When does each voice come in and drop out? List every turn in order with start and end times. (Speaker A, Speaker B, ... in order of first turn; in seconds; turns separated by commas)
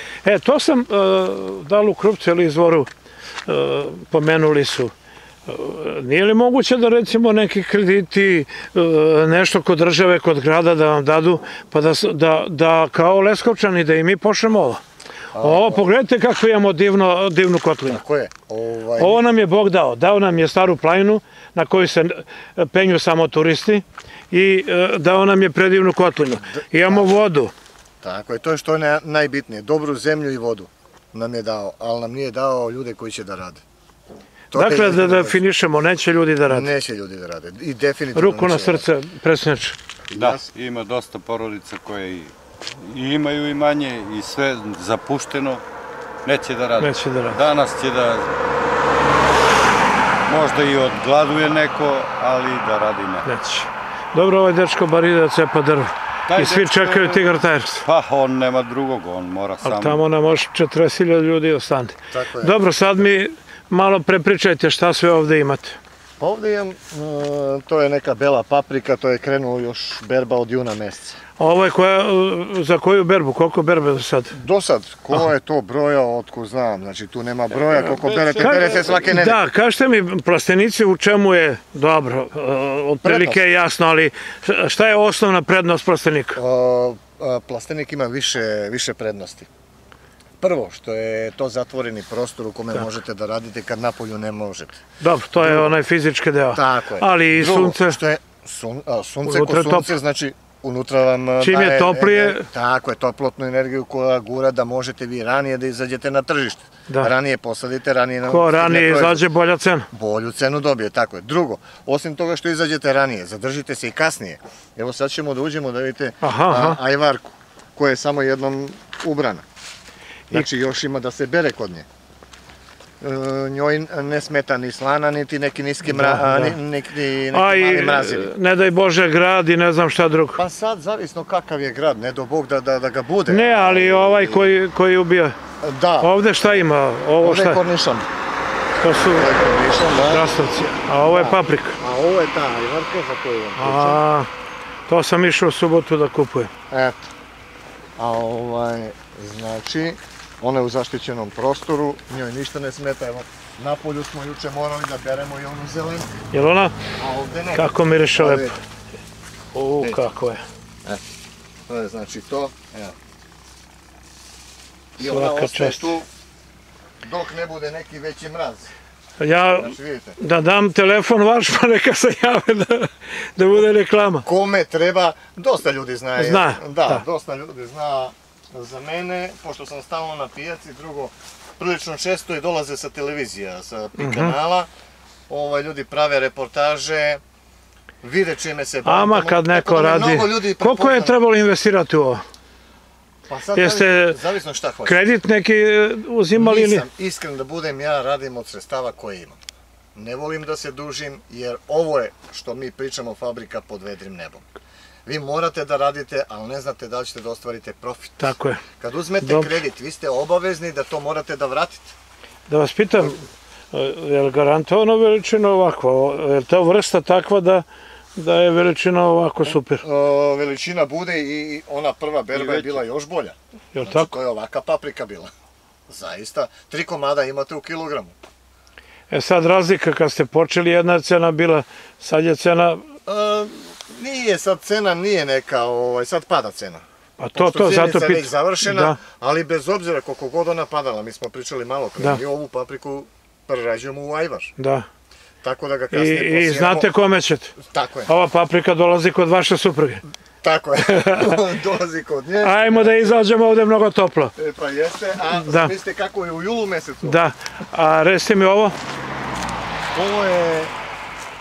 Speaker A: 0.2-2.9, Speaker A: 3.5-4.9, Speaker A: 5.5-14.8, Speaker B: 15.3-15.8, Speaker A: 15.4-18.0, Speaker B: 17.9-19.2, Speaker A: 19.0-27.5, Speaker B: 26.2-27.2, Speaker B: 28.0-33.6, Speaker B: 34.5-35.4, Speaker A: 34.5-36.7, Speaker B: 36.5-38.8, Speaker A: 38.1-39.8, Speaker B: 40.1-40.5, Speaker C: 40.1-45.6, Speaker C: 46.2-48.3, Speaker A: 46.8-47.4, Speaker C: 50.3-53.3, Speaker A: 53.2-57.8, Speaker C: 56.3-60.0, Speaker A: 59.6-65.8, Speaker B: 62.1-62.6, Speaker B: 66.2-71.2, Speaker A: 71.4-74.3, Speaker B: 74.3-79.4, Speaker C: 77.6-79.1, Speaker A: 78.3-86.4, Speaker B: 83.0-83.4, Speaker B: 86.3-89.5, Speaker B: 90.4-94.8, Speaker A: 95.0-98.0, Speaker B: 95.4-95.7, Speaker B: 96.5-109.2, Speaker A: 99.2-99.9, Speaker A: 101.4-102.5, Speaker A: 108.2-109.9, Speaker B: 109.9-119.4, Speaker A: 116.2-116.8, Speaker B: 120.3-121.8, Speaker B: 123.0-128.3, Speaker A: 125.8-126.6, Speaker A: 127.3-130.4, Speaker B: 130.3-134.6, Speaker A: 133.3-135.3, Speaker B: 135.6-136.1, Speaker A: 136.0-137.6, Speaker B: 137.2-138.1, Speaker A: 138.8-139.3, Speaker B: 139.1-140.3, Speaker A: 140.1-141.8, Speaker B: 141.0-144.0, Speaker A: 143.6-144.3, Speaker A: 144.9-146.5, Speaker B: 146.7-147.0, Speaker B: 148.0-156.1, Speaker A: 156.3-156.8, Speaker B: 157.0-158.5, Speaker A: 157.5-158.5, Speaker A: 159.5-160.4, Speaker B: 161.7-162.9, Speaker A: 165.0-165.9, Speaker B: 165.0-166.1, Speaker B: 167.0-168.7, Speaker A: 169.2-174.2, Speaker B: 169.5-170.2, Speaker B: 174.2-184.7, Speaker A: 176.2-177.0, Speaker A: 184.0-184.3, Speaker B: 185.3-187.2, Speaker B: 188.0-191.2, Speaker A: 188.8-192.2, Speaker B: 193.3-195.0, Speaker A: 193.5-194.2, Speaker A: 194.8-196.8, Speaker B: 196.3-199.4, Speaker B: 199.9-204.4, Speaker B: 205.1-211.9, Speaker A: 208.2-208.6, Speaker A: 209.2-209.5, Speaker A: 212.5-219.8, Speaker B: 219.4-225.3, Speaker C: 222.3-222.8, Speaker A: 223.7-224.1, Speaker B: 225.9-228.1, Speaker A: 229.1-232.8, Speaker B: 233.1-236.8, Speaker A: 237.2-239.0, Speaker B: 237.3-244.5, Speaker A: 244.6-244.8, Speaker B: 245.4-246.9, Speaker A: 245.9-250.0, Speaker B: 247.6-248.1, Speaker B: 250.4-253.2, Speaker A: 250.9-251.3, Speaker A: 252.4-254.3, Speaker B: 254.3-257.2, Speaker A: 255.3-255.7, Speaker A: 257.0-258.8, Speaker B: 259.9-260.7